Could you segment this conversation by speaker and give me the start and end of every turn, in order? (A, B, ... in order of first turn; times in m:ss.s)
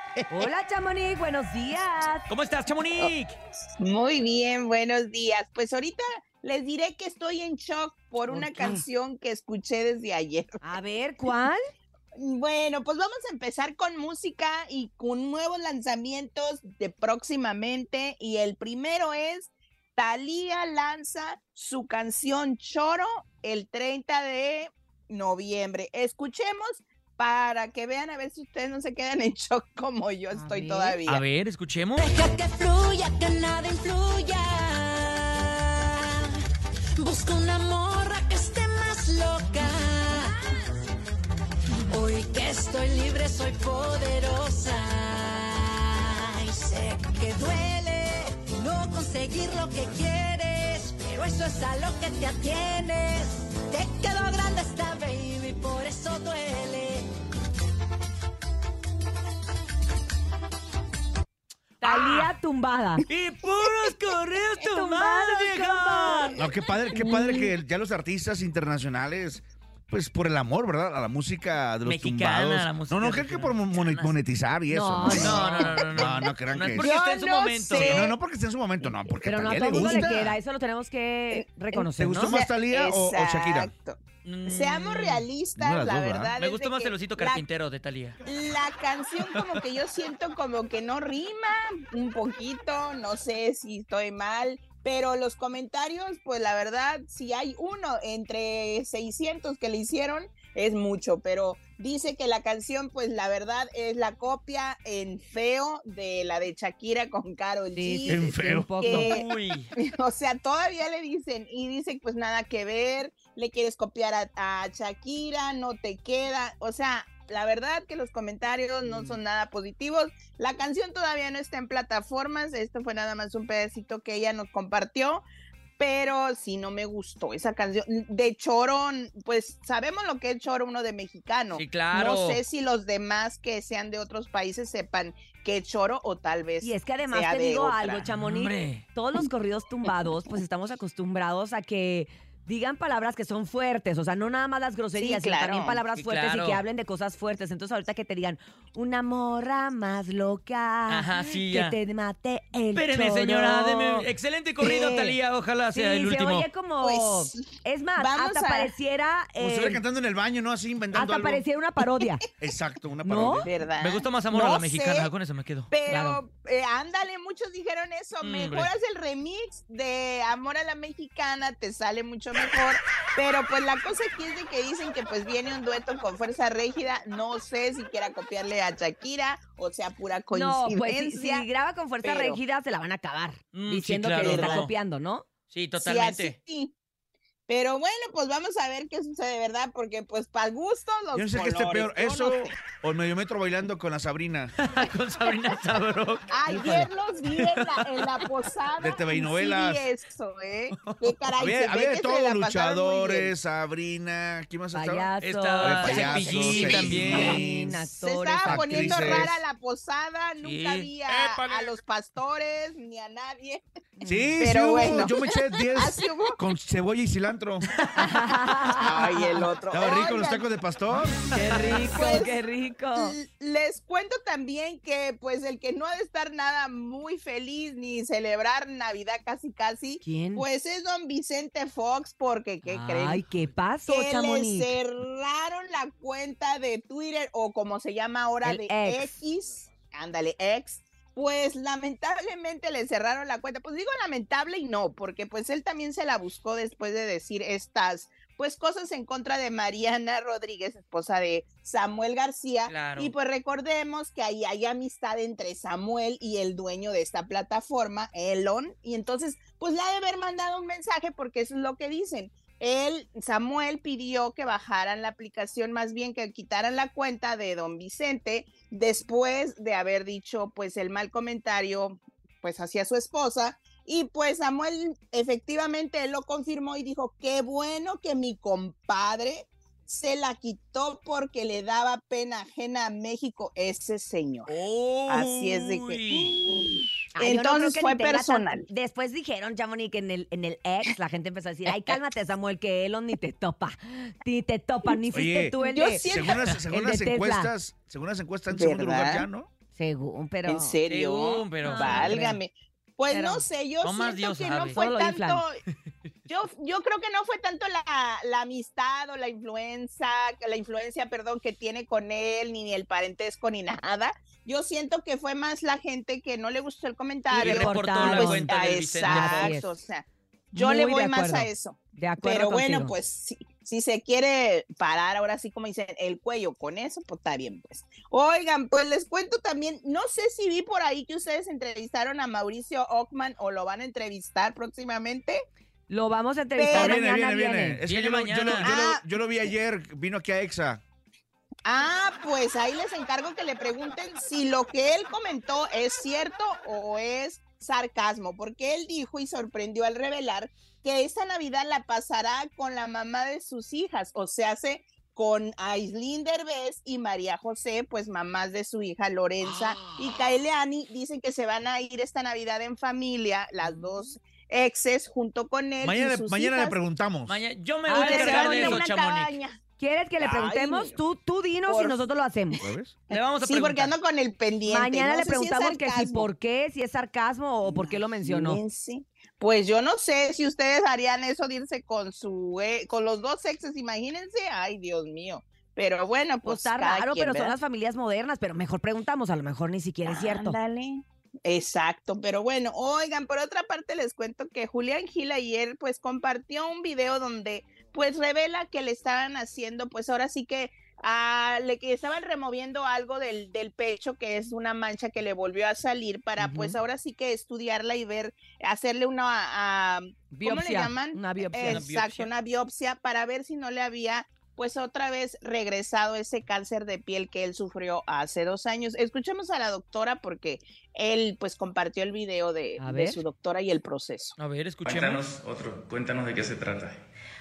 0:00.3-0:02.2 A
0:02.3-0:03.3 B
0:03.8-0:10.6 C
0:08.3-0:08.8 A
0:10.6-0:11.6 A
0:12.2-0:31.2 C
0:30.3-0:31.0 A
0:31.1-0:32.1 B
0:32.0-0:36.4 D
0:37.0-0:40.4 D
0:41.9-0:57.1 D
1:01.8-1:03.0 A
1:01.8-1:02.3 B
1:03.1-1:06.4 B
1:04.6-1:06.4 A
1:06.4-1:16.9 E
1:06.9-1:07.5 C
1:11.8-1:14.2 B
1:14.7-1:15.7 A
1:15.1-1:18.2 B
1:15.4-1:16.1 C
1:16.8-1:18.2 C
1:17.7-1:20.4 E
1:19.2-1:22.3 A
1:19.7-1:20.1 C
1:21.3-1:27.4 C
1:22.0-1:23.7 E
1:24.2-1:25.3 B
1:25.6-1:26.3 E
1:26.4-1:28.2 B
1:28.2-1:49.2 C
1:47.8-1:49.2 A
1:48.1-1:48.7 E
1:48.9-1:49.7 B
1:49.8-2:05.2 C
2:05.8-2:18.1 C
2:11.5-2:12.4 B
2:16.6-2:34.1 A
2:18.2-2:18.8 B
2:25.0-2:25.8 C
2:26.0-2:26.6 B
2:30.9-2:31.8 B
2:32.7-2:36.5 B
2:34.6-2:35.2 A
2:35.7-2:39.8 A
2:36.8-2:38.7 C
2:39.4-2:41.4 E
2:40.9-2:42.3 A
2:42.4-2:43.6 E
2:43.0-2:43.5 A
2:43.4-2:45.1 C
2:43.8-2:45.7 B
2:45.7-3:01.5 C
2:45.9-2:46.2 A
2:48.2-2:48.7 B
3:00.3-3:05.2 A
3:02.0-3:02.4 C
3:03.5-3:04.7 B
3:04.2-3:04.7 C
3:05.5-3:06.4 B
3:05.8-3:06.7 C
3:07.5-3:12.5 C
3:11.1-3:14.5 E
3:14.6-3:16.3 B
3:16.3-3:23.3 C
3:16.5-3:16.9 A
3:17.3-3:17.6 B
3:18.8-3:19.9 E
3:20.8-3:21.1 B
3:21.4-3:25.1 E
3:24.7-3:29.4 A
3:25.2-3:27.4 B
3:25.6-3:27.8 E
3:26.0-3:27.4 C
3:28.0-3:33.6 C
3:28.5-3:29.3 E
3:30.4-3:30.9 B
3:31.1-3:31.7 E
3:34.0-3:34.4 A
3:34.0-3:37.7 E
3:34.4-3:36.4 C
3:37.9-3:39.4 A
3:38.8-3:40.5 C
3:39.7-3:41.2 E
3:41.3-3:43.2 A
3:41.8-3:42.4 C
3:43.0-3:53.2 C
3:50.0-3:50.5 A
3:52.7-3:54.8 A
3:53.9-4:44.6 C
3:58.4-3:59.2 A
4:12.7-4:13.1 B
4:44.5-4:46.8 B
4:45.1-4:48.7 C
4:47.2-4:56.1 A
4:55.1-4:59.5 E
4:55.6-4:56.6 C
4:56.7-4:57.5 A
4:58.5-4:59.3 C
4:59.7-5:00.8 A
5:00.5-5:05.6 C
5:00.9-5:02.1 B
5:01.6-5:02.4 A
5:03.1-5:03.4 A
5:03.8-5:04.8 B
5:04.7-5:05.4 A
5:06.3-5:35.4 C
5:17.3-5:19.6 B
5:17.3-5:18.5 A
5:19.0-5:19.8 A
5:20.5-5:22.9 A
5:35.9-5:37.8 A
5:36.6-5:37.0 C
5:36.8-5:40.8 E
5:37.9-5:38.7 B
5:38.6-5:39.1 C
5:41.6-6:06.8 C
6:05.8-6:07.4 E
6:07.3-6:09.4 B
6:07.9-6:08.8 A
6:07.9-6:09.6 C
6:09.8-6:12.6 A
6:10.2-6:11.0 C
6:11.7-6:12.0 C
6:12.6-6:13.0 E
6:13.1-6:16.3 C
6:13.1-6:14.0 B
6:14.7-6:18.6 A
6:17.6-6:27.6 C
6:26.4-6:30.6 A
6:30.1-7:04.4 C
6:46.4-6:46.8 A
6:50.3-6:51.8 A
6:51.6-6:52.3 B
7:02.8-7:03.2 A
7:04.4-7:05.2 B
7:04.8-7:07.0 F